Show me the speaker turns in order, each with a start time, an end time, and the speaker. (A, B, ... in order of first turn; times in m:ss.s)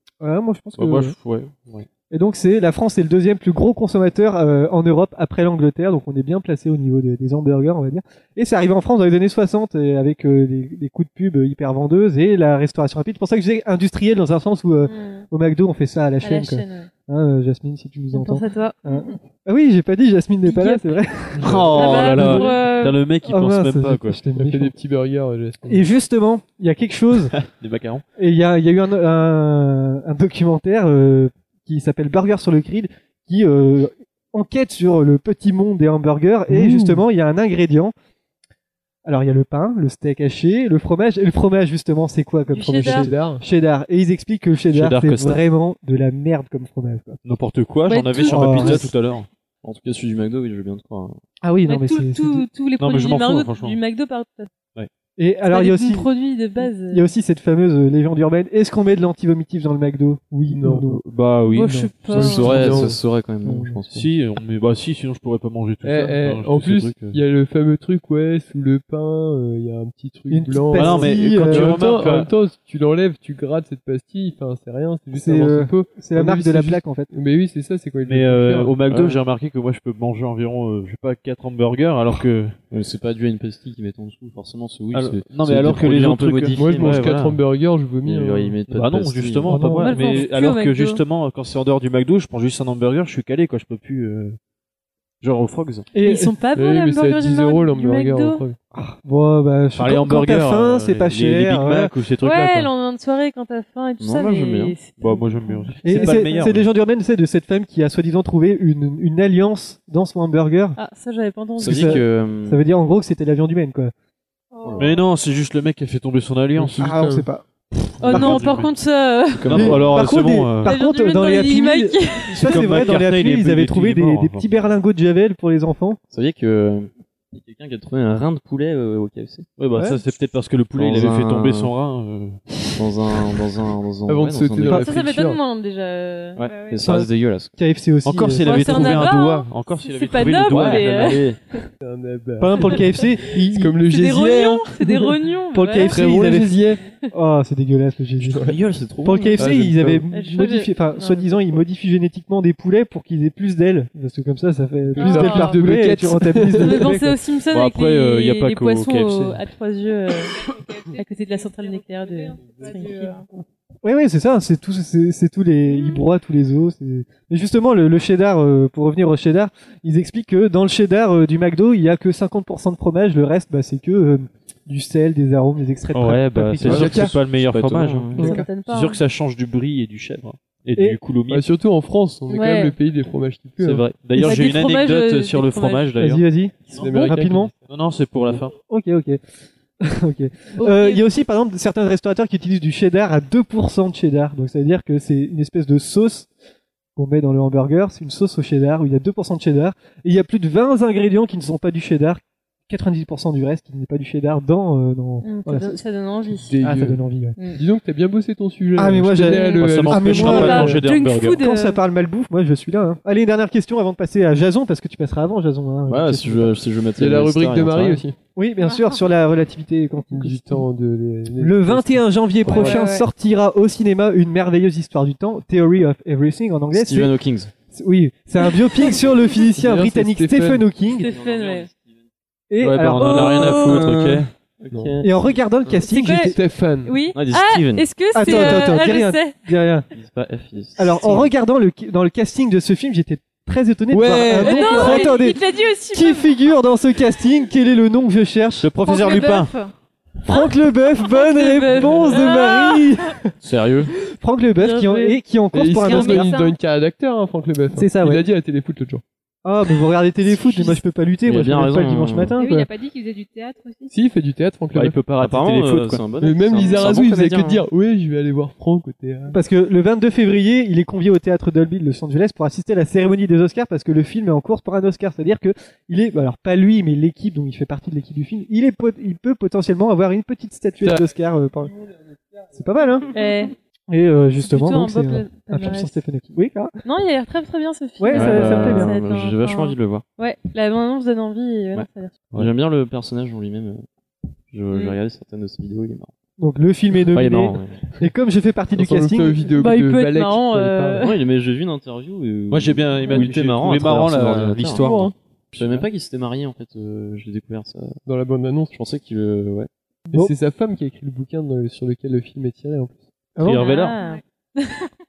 0:00.2-0:01.2 A
0:00.8-0:01.9 B
0:02.1-0:22.6 A
0:16.2-0:16.9 C
0:18.1-0:19.1 C
0:20.4-0:21.0 C
0:21.4-0:24.2 B
0:21.7-0:23.1 C
0:23.2-0:24.7 A
0:24.4-0:25.8 D
0:25.7-0:27.3 A
0:27.3-0:28.0 B
0:28.2-0:37.9 A
0:36.5-0:37.0 D
0:39.0-0:47.2 A
0:42.5-0:43.1 C
0:42.8-0:43.4 D
0:44.7-0:45.4 B
0:47.2-0:49.3 B
0:47.9-0:48.9 C
0:48.3-0:48.9 A
0:49.6-0:51.2 E
0:51.4-0:52.5 A
0:51.7-0:54.5 C
0:52.8-0:53.8 B
0:55.2-0:56.1 A
0:55.5-0:57.0 C
0:56.6-1:01.0 A
1:00.5-1:00.9 D
1:01.0-1:02.9 B
1:01.5-1:02.7 C
1:01.6-1:01.9 A
1:02.1-1:03.0 D
1:02.2-1:04.1 E
1:03.4-1:03.8 A
1:03.9-1:07.2 B
1:05.8-1:18.8 D
1:10.3-1:11.8 A
1:10.7-1:12.3 B
1:15.1-1:17.1 A
1:18.0-1:22.6 B
1:18.9-1:19.2 E
1:22.7-1:27.1 E
1:24.9-1:27.4 B
1:26.6-1:28.6 D
1:28.0-1:29.6 E
1:28.7-1:34.4 B
1:29.5-1:30.0 A
1:29.8-1:31.0 C
1:35.2-1:35.9 B
1:35.9-1:36.4 A
1:36.0-1:38.4 C
1:36.5-1:38.6 D
1:38.7-1:41.9 A
1:39.8-1:42.7 B
1:42.2-1:46.3 C
1:44.0-1:44.8 E
1:45.0-1:46.7 B
1:45.8-1:50.8 A
1:50.8-1:52.0 C
1:51.6-1:52.6 E
1:51.6-1:53.9 A
1:54.5-1:55.1 F
1:54.6-1:54.9 E
1:54.8-1:56.9 B
1:56.6-1:57.2 D
1:56.8-1:57.5 A
1:58.0-1:58.7 B
1:58.0-1:58.5 A
1:58.0-1:59.6 C
1:59.4-2:00.1 E
1:59.4-2:00.7 B
1:59.5-2:06.0 A
2:00.6-2:02.8 C
2:02.3-2:04.4 B
2:06.1-2:09.5 E
2:09.6-2:12.7 B
2:10.8-2:11.7 E
2:12.8-2:14.9 E
2:14.1-2:15.4 D
2:14.7-2:16.4 C
2:16.4-2:17.5 E
2:16.4-2:16.9 F
2:16.8-2:19.1 A
2:18.0-2:21.2 B
2:18.4-2:21.6 C
2:20.4-2:21.4 E
2:21.8-2:23.0 D
2:22.4-2:23.8 A
2:23.5-2:25.1 D
2:23.8-2:26.1 C
2:25.5-2:37.2 A
2:25.8-2:26.8 D
2:28.3-2:28.5 D
2:28.3-2:29.6 E
2:29.4-2:30.0 D
2:30.1-2:31.6 C
2:35.0-2:35.6 C
2:35.0-2:36.8 D
2:36.6-2:40.4 C
2:37.5-2:39.4 B
2:40.2-2:43.3 F
2:40.9-2:43.2 C
2:43.8-2:57.2 A
2:55.9-3:01.5 B
2:56.6-2:58.4 E
2:56.6-2:57.1 D
2:58.2-2:58.5 A
2:58.2-2:59.0 C
3:01.3-3:03.8 D
3:02.3-3:02.8 C
3:03.6-3:08.6 B
3:04.1-3:06.0 C
3:06.0-3:07.5 A
3:06.7-3:07.6 D
3:08.6-3:09.2 A
3:09.8-3:16.3 A
3:10.6-3:11.0 C
3:17.0-3:25.8 A
3:25.2-3:26.6 C
3:26.4-3:27.0 D
3:26.6-3:27.4 A
3:27.4-3:27.6 C
3:27.5-3:30.8 D
3:28.8-3:36.5 A
3:29.2-3:31.8 C
3:29.6-3:31.4 B
3:35.9-3:38.0 E
3:37.0-3:38.2 D
3:38.4-3:40.7 A
3:38.7-3:39.0 F
3:40.1-3:42.8 D
3:41.4-3:47.1 A
3:42.6-3:43.0 C
3:42.6-3:42.9 F
3:46.7-3:47.5 E
3:47.7-3:51.1 A
3:48.5-3:48.9 C
3:49.6-3:50.6 D
3:50.9-3:51.7 C
3:51.1-3:51.8 E
3:52.5-3:53.9 A
3:52.6-3:54.3 B
3:53.0-3:53.9 C
3:53.1-3:55.4 E
3:55.0-3:56.4 A
3:55.8-3:59.4 C
3:56.3-3:56.9 D
3:57.2-3:58.7 E
3:58.1-3:59.9 A
3:59.9-4:01.3 E
4:00.8-4:05.4 A
4:03.9-4:05.2 D
4:04.3-4:06.3 C
4:05.9-4:08.7 A
4:08.6-4:09.6 B
4:08.8-4:09.7 F
4:10.2-4:13.2 A
4:10.3-4:13.0 C
4:13.4-4:13.9 B
4:14.1-4:16.3 A
4:14.6-4:15.2 C
4:15.5-4:19.0 D
4:15.9-4:16.5 F
4:17.8-4:18.2 A
4:19.4-4:22.7 A
4:20.4-4:20.8 C
4:21.2-4:22.4 E
4:22.4-4:23.9 F
4:23.9-4:25.0 D
4:24.7-4:26.0 B
4:25.2-4:27.6 E
4:26.2-4:29.4 D
4:26.6-4:26.9 F
4:29.3-4:41.7 A
4:40.8-4:41.1 D
4:42.5-4:43.1 A
4:43.1-4:43.5 C
4:43.9-4:46.8 A
4:44.4-4:46.0 C
4:46.8-4:52.3 C
4:48.0-4:49.0 A
4:48.1-4:50.0 E
4:51.7-4:53.8 E
4:54.5-4:56.1 E
4:54.7-4:55.0 C
4:56.4-4:59.5 A
4:57.1-4:57.8 E
4:58.8-5:01.0 D
4:59.5-5:01.2 C
5:01.0-5:04.9 E
5:02.5-5:05.8 B
5:04.8-5:05.1 D
5:05.5-5:08.0 E
5:08.1-5:08.7 D
5:08.7-5:09.7 E
5:10.1-5:13.1 D
5:13.4-5:13.7 A
5:13.4-5:14.0 B
5:13.6-5:14.9 C
5:13.7-5:14.2 F